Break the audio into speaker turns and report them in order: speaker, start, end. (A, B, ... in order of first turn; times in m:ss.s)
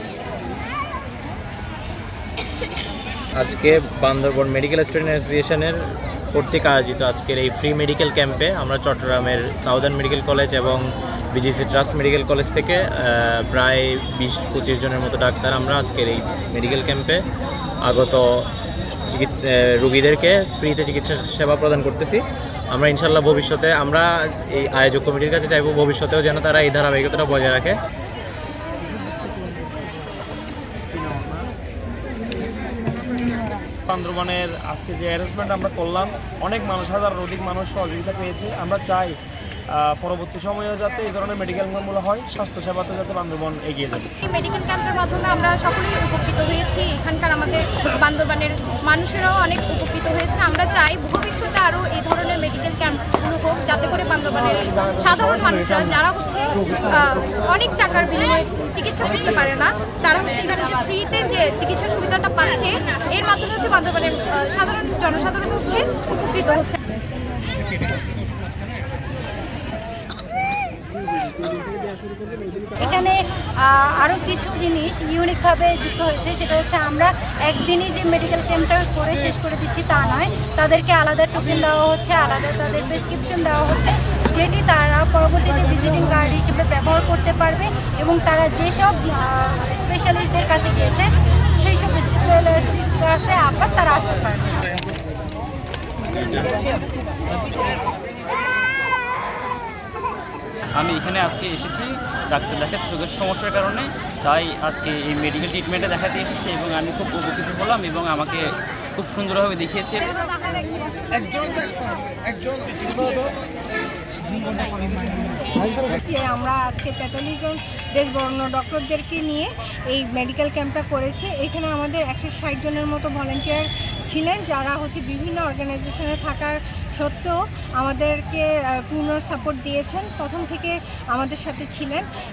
0:03.4-0:05.8 A
0:06.3-0:17.2 A
0:17.8-0:18.5 A
0:19.1-0:27.8 A
0:33.9-0:39.2 B
0:39.7-0:44.1 B
0:44.2-1:06.8 C
1:12.8-1:34.5 D
1:36.2-1:36.6 E
1:40.7-1:50.2 E
1:55.6-2:12.1 F